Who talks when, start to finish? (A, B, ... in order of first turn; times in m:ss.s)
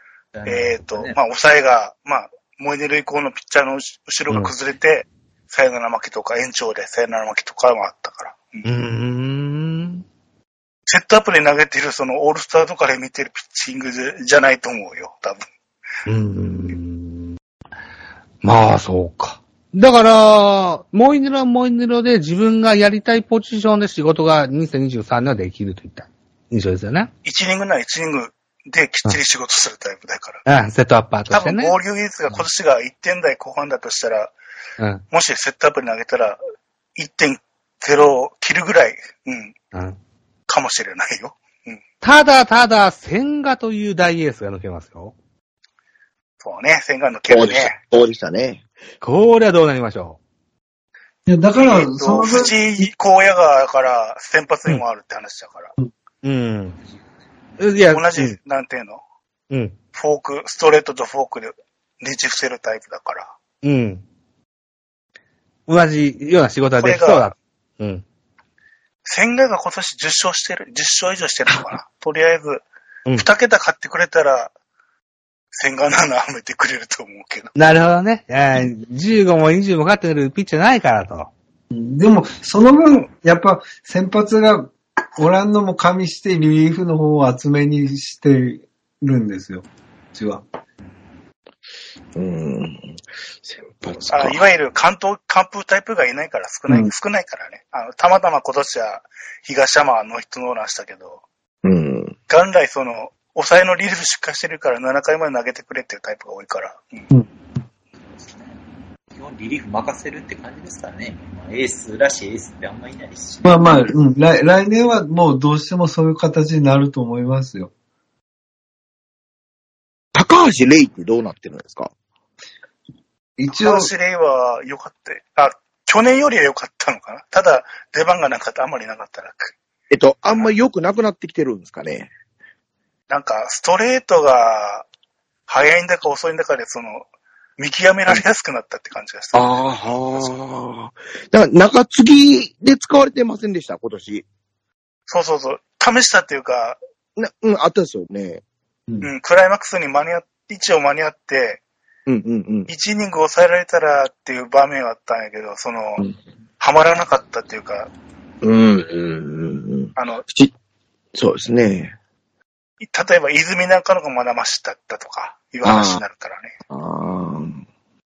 0:00.3-0:01.2 A
0:00.4-0:08.6 B
0:08.6-0:10.0 C
0:10.9-0:15.4 B
0:16.0-0:17.4 C
0:18.4-0:27.1 C
0:27.2-0:30.4 B
0:30.4-0:31.7 C
0:31.3-0:34.3 B
0:34.8-0:35.0 C
0:35.1-0:36.4 B
0:37.0-0:39.5 B
0:40.5-0:41.8 B
0:42.0-0:45.1 C
0:46.4-0:47.8 B
0:47.3-0:48.6 D
0:49.0-0:50.2 C
0:51.3-0:52.5 E
0:51.6-0:55.7 B
0:56.2-0:56.8 C
0:57.6-0:58.4 C
0:57.9-0:59.0 B
0:59.5-0:59.7 C
0:59.9-1:03.3 B
1:03.6-1:04.0 C
1:05.7-1:08.0 C
1:06.8-1:07.3 B
1:09.0-1:12.6 B
1:13.2-1:14.5 B
1:15.5-1:17.5 B
1:17.6-1:21.3 C
1:21.7-1:30.4 E
1:32.2-1:34.4 D
1:34.1-1:41.2 B
1:41.6-1:42.1 D
1:42.3-1:47.0 B
1:48.0-1:48.6 A
1:49.1-1:53.9 A
1:53.4-1:57.7 E
2:00.1-2:01.9 D
2:03.4-2:03.9 E
2:03.5-2:09.5 B
2:09.9-2:12.1 D
2:13.1-2:14.9 B
2:15.5-2:17.0 B
2:17.6-2:20.3 B
2:19.3-2:24.2 D
2:25.1-2:26.8 B
2:27.2-2:28.4 D
2:29.0-2:31.6 B
2:32.1-2:32.7 D
2:32.7-2:36.0 B
2:36.6-2:37.9 B
2:38.4-2:40.5 D
2:40.0-2:40.2 B
2:41.1-2:41.9 D
2:42.8-2:46.5 B
2:45.6-2:46.0 D
2:46.7-2:47.6 D